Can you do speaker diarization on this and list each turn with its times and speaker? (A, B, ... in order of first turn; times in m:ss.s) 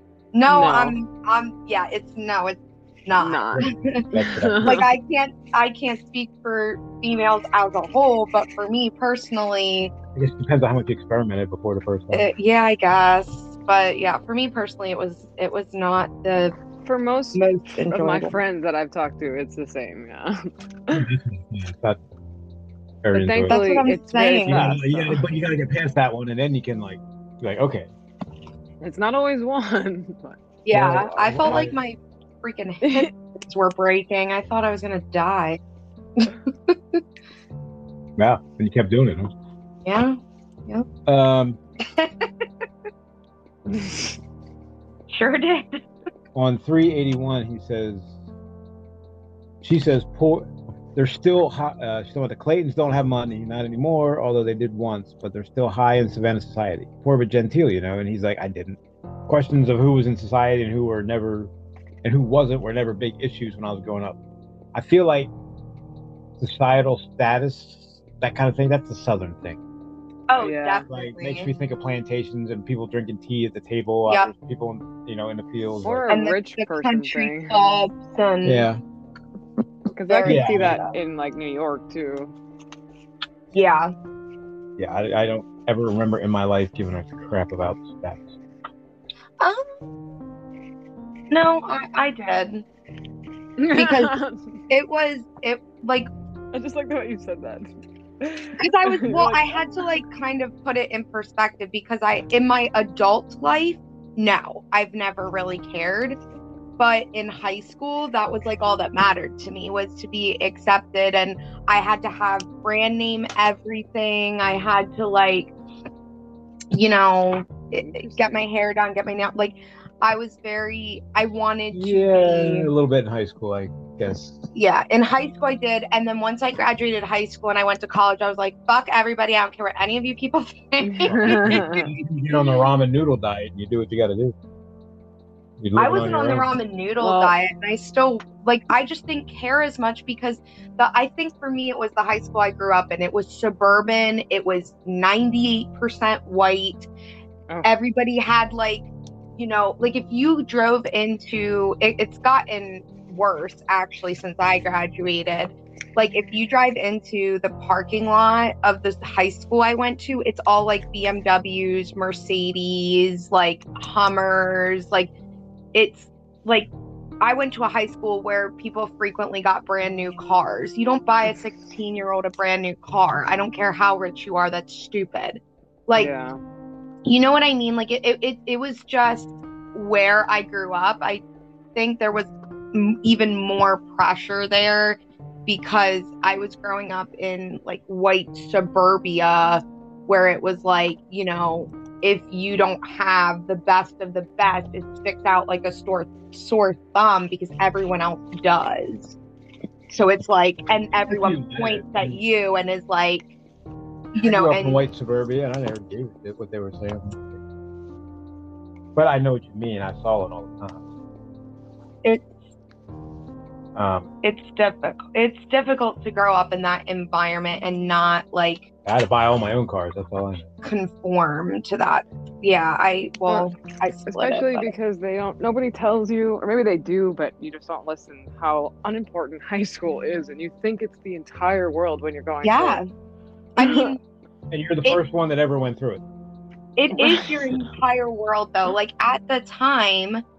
0:00.3-0:04.1 A
0:00.5-0:01.0 B
0:03.2-0:03.6 B
0:03.6-0:04.8 C
0:04.2-0:04.9 B
0:04.6-0:09.9 A
0:10.2-0:12.3 C
0:12.1-0:16.6 A
0:16.8-0:21.0 B
0:17.4-0:18.4 A
0:20.9-0:22.0 C
0:23.0-0:23.9 C
0:23.1-0:25.2 B
0:23.5-0:24.9 A
0:24.5-0:27.9 C
0:28.8-0:31.6 B
0:30.6-0:35.6 A
0:30.7-0:31.7 C
0:32.8-0:33.1 B
0:36.2-0:37.0 A
0:38.2-0:39.3 C
0:39.8-0:40.9 A
0:41.1-0:41.6 C
0:41.9-0:42.3 A
0:43.7-0:44.2 B
0:45.1-0:45.8 A
0:46.4-0:48.1 C
0:49.6-1:01.5 C
1:02.0-1:04.2 C
1:04.7-1:05.3 C
1:06.4-1:09.6 C
1:10.3-1:11.5 A
1:10.4-1:10.8 B
1:10.9-1:16.1 C
1:15.8-1:17.6 B
1:16.1-1:18.7 A
1:18.4-1:18.8 C
1:20.0-1:22.3 B
1:20.1-1:21.0 A
1:20.3-1:20.8 C
1:23.5-1:23.9 A
1:24.8-1:28.3 C
1:29.4-1:29.7 A
1:31.3-1:32.6 A
1:33.6-1:34.4 B
1:33.7-1:36.1 A
1:36.5-1:37.7 B
1:38.2-1:39.8 B
1:38.6-1:46.2 A
1:46.8-1:55.5 A
1:56.7-2:02.7 A
1:57.8-1:58.4 B
2:01.7-2:04.4 C
2:04.5-2:11.9 A
2:10.8-2:11.9 B
2:11.1-2:14.4 C
2:15.6-2:16.5 C
2:15.8-2:26.9 A
2:17.0-2:17.3 B
2:27.6-2:45.1 A
2:45.7-2:46.7 A
2:47.2-2:56.1 A
2:56.0-2:56.4 B
2:57.1-3:01.2 A
3:01.8-3:19.2 A
3:19.9-3:23.2 A
3:21.1-3:22.2 C
3:24.2-3:24.8 A
3:24.2-3:27.4 C
3:29.0-3:30.8 C
3:32.0-3:32.3 A
3:33.8-3:34.1 C
3:34.2-3:38.7 A
3:38.8-3:40.5 C
3:40.6-3:44.7 A
3:44.1-3:52.8 B
3:52.4-3:52.9 A
3:53.6-3:54.0 A
3:53.6-3:54.0 B
3:54.5-3:56.0 C
3:56.8-4:00.2 A
3:56.9-3:57.6 B